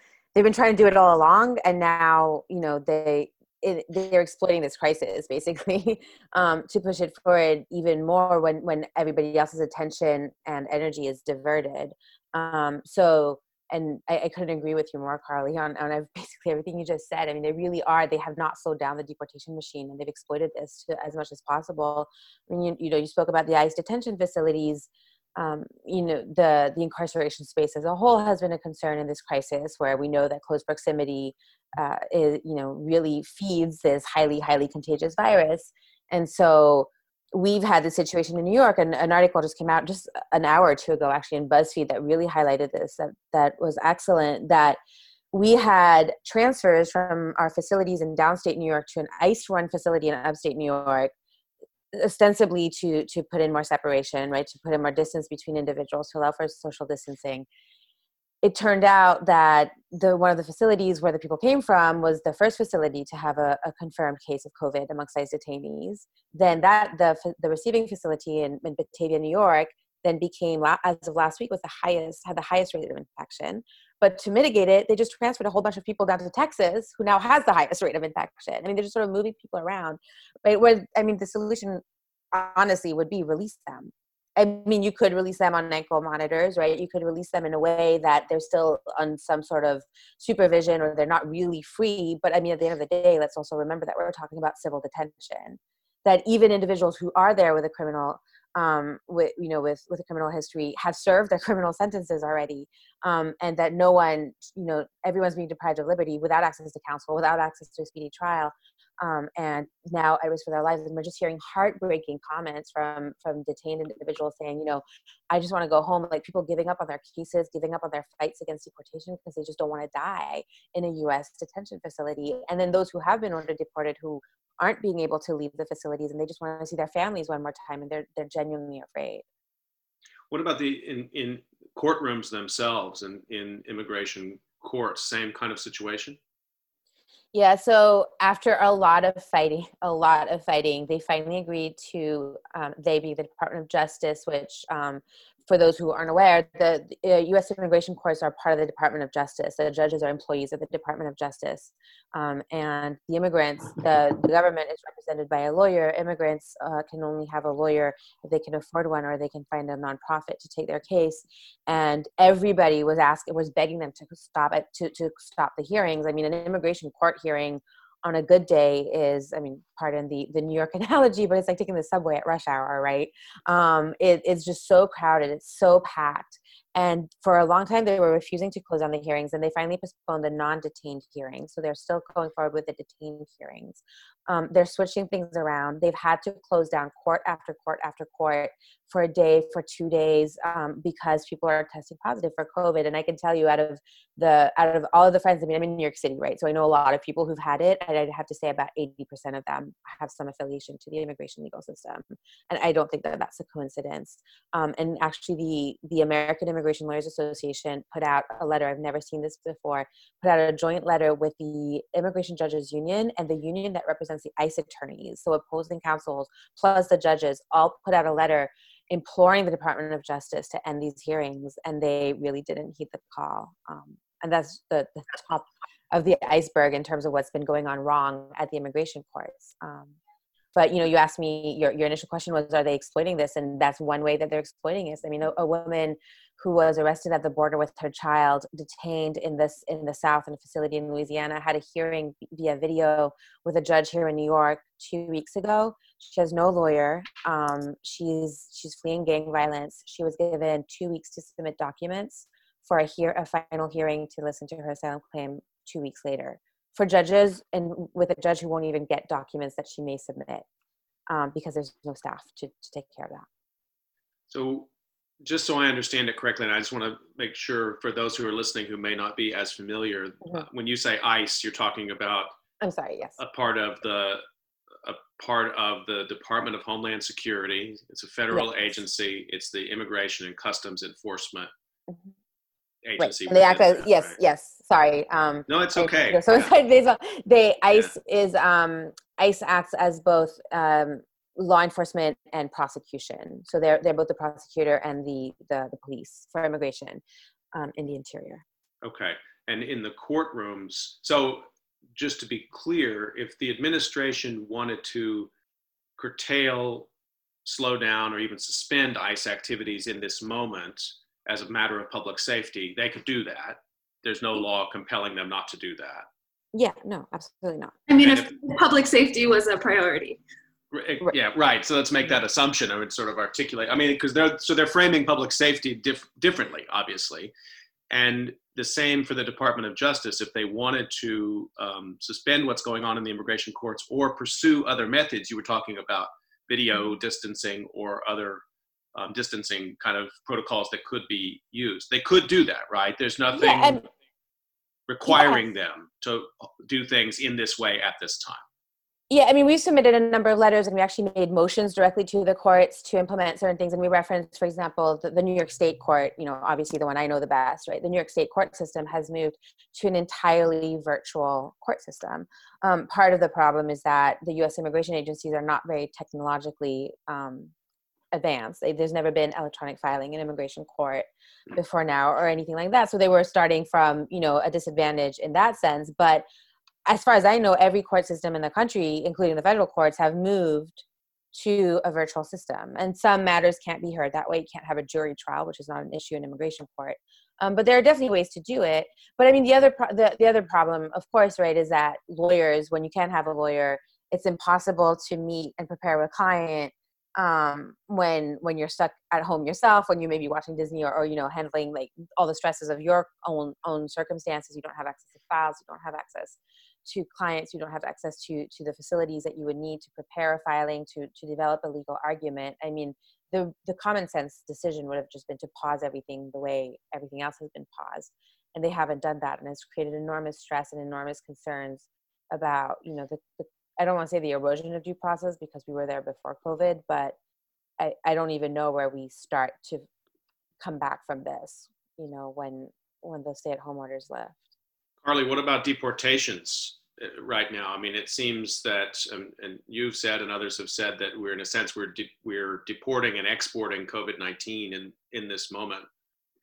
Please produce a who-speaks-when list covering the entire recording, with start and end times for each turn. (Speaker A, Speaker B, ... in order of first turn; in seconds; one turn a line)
Speaker A: 0.3-44.8
Speaker A: 45.3-51.1
Speaker A: 51.9-57.5
Speaker A: 58.4-129.2
Speaker B: 130.3-136.2
Speaker A: 137.3-229.9
Speaker A: 230.6-260.5
Speaker A: 261.1-263.3
Speaker B: 264.3-264.7
Speaker B: 265.2-272.4
Speaker A: 272.6-273.2
Speaker B: 273.2-274.2
Speaker B: 274.8-281.5
Speaker B: 282.8-284.2
Speaker A: 283.0-297.0
Speaker B: 285.5-286.5
Speaker A: 297.5-298.4
Speaker B: 298.8-305.3
Speaker B: 306.0-306.9
Speaker B: 307.4-316.1
Speaker A: 316.5-317.8
Speaker C: 317.9-320.2
Speaker B: 318.0-318.3
Speaker B: 320.7-327.3
Speaker B: 327.9-338.4
Speaker B: 338.9-343.8
Speaker A: 343.4-343.8
Speaker B: 344.9-348.4
Speaker A: 345.1-345.4
Speaker A: 349.1-367.5
Speaker A: 368.1-376.3
Speaker A: 376.9-427.2
Speaker A: 427.8-429.9
Speaker A: 430.6-434.4
Speaker B: 435.0-445.9